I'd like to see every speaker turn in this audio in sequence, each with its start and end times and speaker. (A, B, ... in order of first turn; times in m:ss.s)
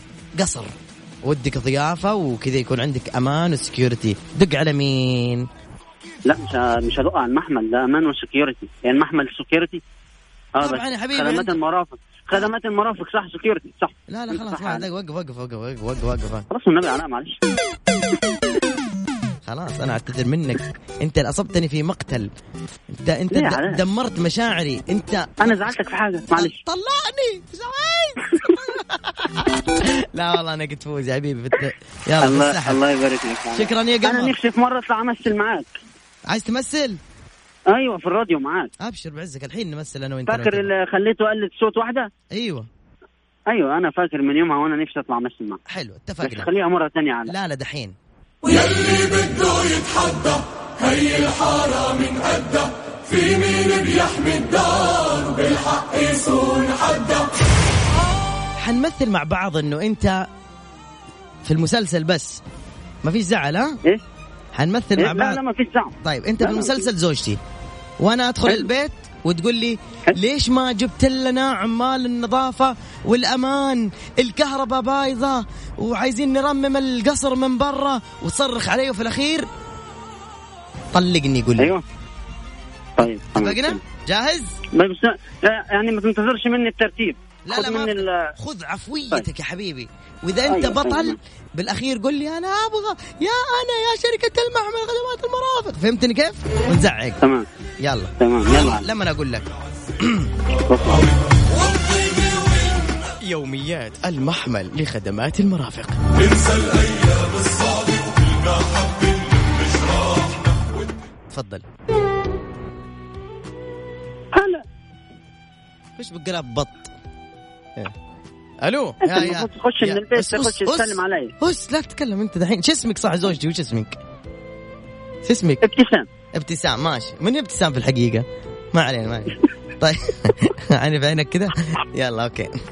0:00.4-0:05.4 A
0:06.3-0:09.8 B
0:10.6-0:14.8 B
0:10.6-0:11.6 A
0:14.1-0:16.4 A
0:16.5-0:17.4 B
0:19.4-0:22.3 A
0:22.9-0:25.8 A
0:23.3-0:23.8 B
0:25.4-0:26.6 B
0:26.3-0:32.8 A
0:32.2-0:35.7 B
0:33.5-0:34.3 A
0:36.3-0:37.0 A
0:37.7-0:38.7 B
0:38.8-0:40.7 A
0:40.3-0:42.1 B
0:42.3-0:42.7 A
0:43.5-0:45.6 B
0:45.7-0:46.5 A
0:46.2-0:47.3 B
0:47.3-0:47.9 A
0:48.5-0:57.2 C
0:58.6-1:00.2 A
1:01.4-1:02.4 A
1:03.0-1:03.8 A
1:04.5-1:05.4 A
1:05.0-1:06.8 B
1:06.0-1:07.4 A
1:08.0-1:19.5 A
1:20.9-1:21.7 A
1:23.0-1:23.8 B
1:23.2-1:24.5 A
1:24.7-1:28.3 B
1:27.4-1:37.2 A
1:30.5-1:31.2 B
1:37.8-1:40.3 A
1:38.2-1:38.8 B
1:40.7-1:41.1 B
1:43.2-1:46.0 A
1:46.2-1:50.3 C
1:51.3-1:51.6 A
1:54.3-1:54.6 B
1:56.0-1:56.9 A
1:58.6-2:04.0 A
1:59.0-2:01.3 B
2:05.2-2:05.6 A
2:05.6-2:06.0 B
2:06.3-2:12.5 A